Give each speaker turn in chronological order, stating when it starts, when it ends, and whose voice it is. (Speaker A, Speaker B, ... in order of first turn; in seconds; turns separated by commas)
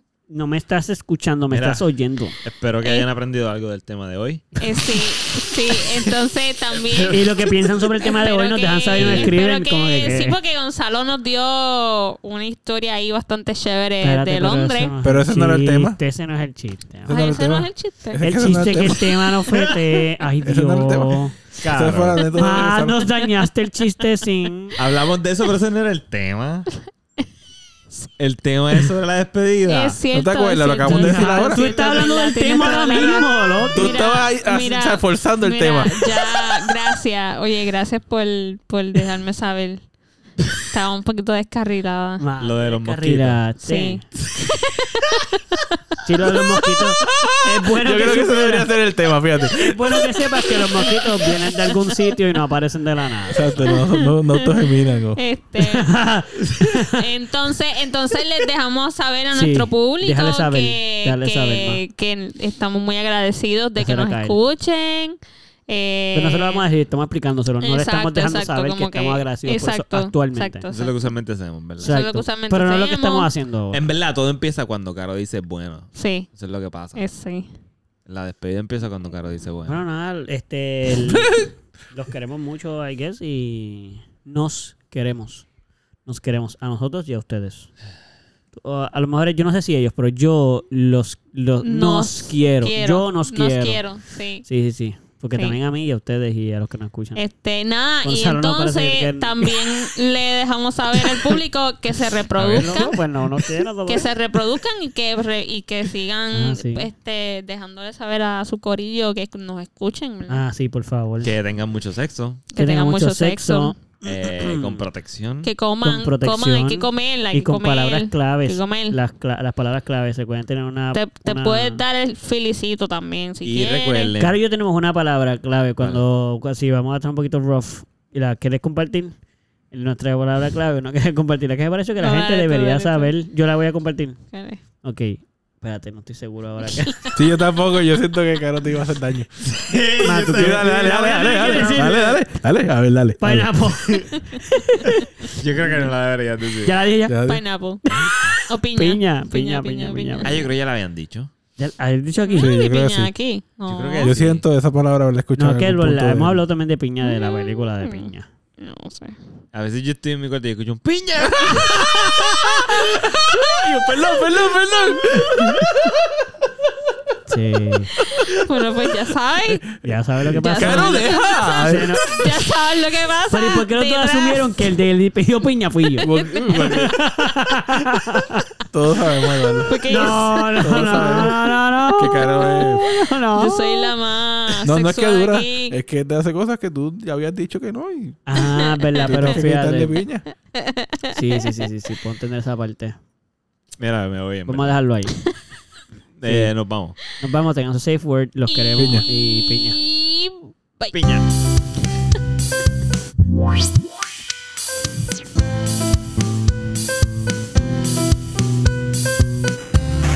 Speaker A: 0.3-2.4, Speaker B: 1.5-1.9, Speaker B: 2.4-4.5, Speaker C: 2.8-3.1, Speaker C: 4.6-14.9, Speaker B: 6.7-7.5, Speaker A: 7.1-10.4, Speaker B: 8.9-9.3, Speaker A: 14.0-17.2, Speaker D: 15.0-16.0, Speaker D: 17.1-19.3, Speaker C: 17.1-18.5, Speaker A: 18.2-24.8, Speaker D: 20.4-23.1, Speaker B: 21.6-22.2, Speaker B: 24.8-26.7, Speaker B: 28.2-30.0, Speaker C: 29.6-39.9, Speaker D: 30.1-31.6, Speaker A: 30.8-34.0, Speaker D: 33.7-36.7, Speaker C: 40.6-42.2, Speaker A: 42.2-44.0, Speaker B: 42.4-43.4, Speaker C: 43.6-45.6, Speaker A: 46.0-48.7, Speaker D: 47.0-50.0, Speaker A: 49.5-53.8, Speaker C: 50.5-51.3, Speaker D: 53.3-55.2, Speaker C: 53.6-55.9, Speaker A: 55.6-57.0, Speaker C: 56.9-66.7, Speaker A: 59.3-61.8, Speaker A: 63.8-64.4, Speaker A: 66.1-70.7, Speaker C: 67.6-71.1, Speaker B: 70.7-72.0, Speaker C: 71.8-73.3, Speaker A: 71.8-73.8, Speaker B: 73.7-77.0, Speaker C: 75.9-76.3, Speaker C: 77.0-77.5, Speaker B: 78.1-79.8, Speaker A: 79.7-85.5, Speaker A: 86.0-87.7, Speaker A: 88.5-93.8, Speaker C: 91.6-94.4, Speaker A: 94.4-97.2, Speaker C: 97.2-103.0, Speaker A: 98.0-99.7, Speaker A: 101.0-101.3, Speaker B: 102.3-103.0, Speaker A: 102.5-104.1, Speaker C: 103.9-110.4, Speaker A: 106.3-106.9, Speaker A: 110.3-111.3, Speaker B: 111.2-112.4, Speaker C: 112.5-113.8, Speaker A: 112.5-114.8, Speaker B: 114.0-115.5, Speaker C: 115.4-119.0, Speaker A: 115.8-121.8, Speaker C: 120.9-124.1, Speaker B: 123.4-124.4, Speaker A: 124.2-129.1, Speaker A: 129.7-134.2, Speaker C: 132.0-133.1, Speaker C: 134.3-134.6, Speaker A: 134.8-137.1, Speaker C: 136.7-137.1, Speaker D: 137.1-139.5, Speaker B: 139.5-142.0, Speaker A: 140.0-142.2, Speaker D: 140.2-143.5, Speaker A: 143.2-145.9, Speaker B: 145.3-146.8, Speaker A: 146.6-147.2, Speaker D: 147.1-147.4, Speaker C: 147.2-147.8, Speaker A: 147.8-150.4, Speaker B: 147.9-148.4, Speaker C: 148.5-150.5, Speaker B: 150.2-151.3, Speaker A: 151.6-152.5, Speaker C: 152.2-154.2, Speaker D: 152.4-153.1, Speaker B: 153.7-154.4, Speaker D: 154.0-156.4, Speaker A: 155.4-158.3, Speaker C: 157.0-159.2, Speaker B: 159.5-162.1, Speaker D: 161.2-166.3, Speaker A: 167.3-167.9, Speaker C: 168.0-169.7, Speaker D: 168.1-168.5, Speaker A: 169.8-172.0, Speaker C: 170.2-174.7, Speaker D: 170.5-172.4, Speaker A: 173.3-178.4, Speaker C: 176.0-176.8, Speaker D: 176.0-177.2, Speaker D: 178.7-181.4, Speaker C: 179.6-181.3, Speaker A: 179.9-183.9, Speaker D: 181.9-182.8, Speaker C: 182.6-185.8, Speaker D: 184.6-188.2, Speaker A: 188.2-190.0, Speaker C: 188.5-189.1, Speaker D: 189.0-190.2, Speaker C: 190.5-191.5, Speaker A: 191.1-193.0, Speaker B: 193.8-194.8, Speaker A: 194.5-195.2, Speaker B: 196.2-197.0, Speaker A: 197.2-199.8, Speaker C: 198.5-201.0, Speaker D: 198.8-199.1, Speaker B: 200.9-201.2